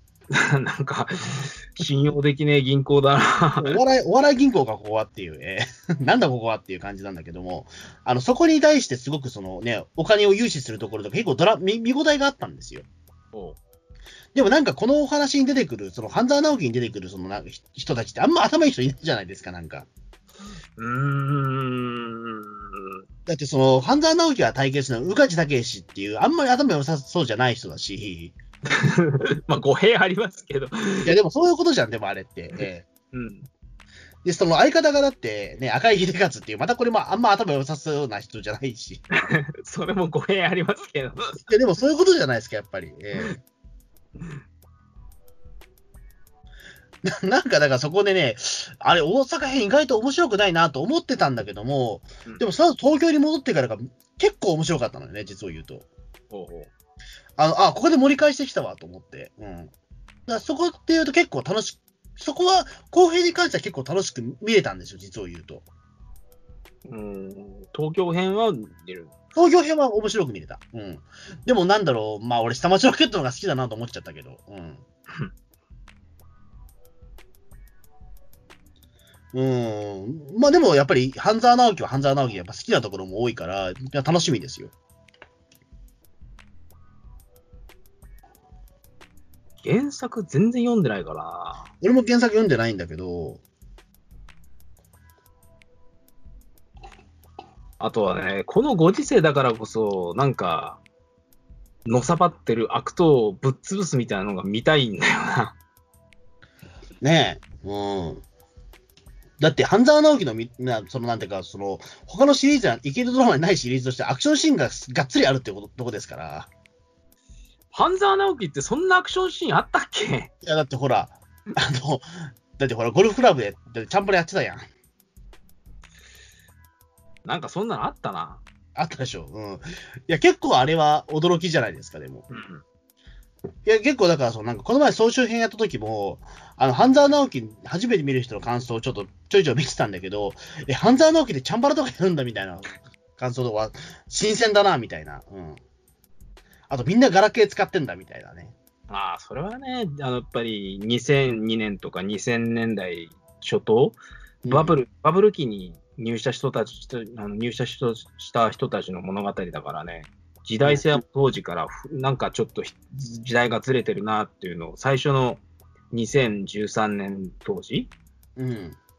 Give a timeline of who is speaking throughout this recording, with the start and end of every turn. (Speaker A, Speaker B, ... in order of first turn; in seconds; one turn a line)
Speaker A: 0.3-3.8
Speaker B: 3.6-12.9
Speaker A: 13.3-13.6
Speaker B: 14.3-19.9
Speaker A: 20.8-23.0
Speaker B: 23.3-28.4
Speaker A: 28.7-31.1
Speaker B: 31.1-32.9
Speaker A: 33.1-33.5
Speaker B: 34.2-39.0
Speaker A: 39.2-41.5
Speaker B: 41.5-43.4
Speaker B: 47.0-55.9
Speaker A: 56.3-56.7
Speaker B: 57.4-59.7
Speaker B: 60.3-65.6
Speaker A: 66.9-69.1
Speaker B: 69.3-74.8
Speaker B: 79.3-84.7
Speaker A: 89.6-91.7
Speaker B: 91.8-93.4
Speaker A: 97.8-100.8
Speaker A: 101.9-105.6
Speaker B: 107.0-108.2
Speaker B: 109.4-116.5
Speaker A: 117.7-120.3
Speaker B: 120.4-124.7
Speaker A: 127.2-128.4
Speaker B: 128.8-132.3
Speaker A: 132.3-132.6
Speaker B: 133.7-145.6
Speaker B: 146.7-148.6
Speaker A: 148.9-165.4
Speaker B: 154.4-154.8
Speaker B: 160.6-160.9
Speaker A: 165.9-167.9
Speaker B: 168.4-168.8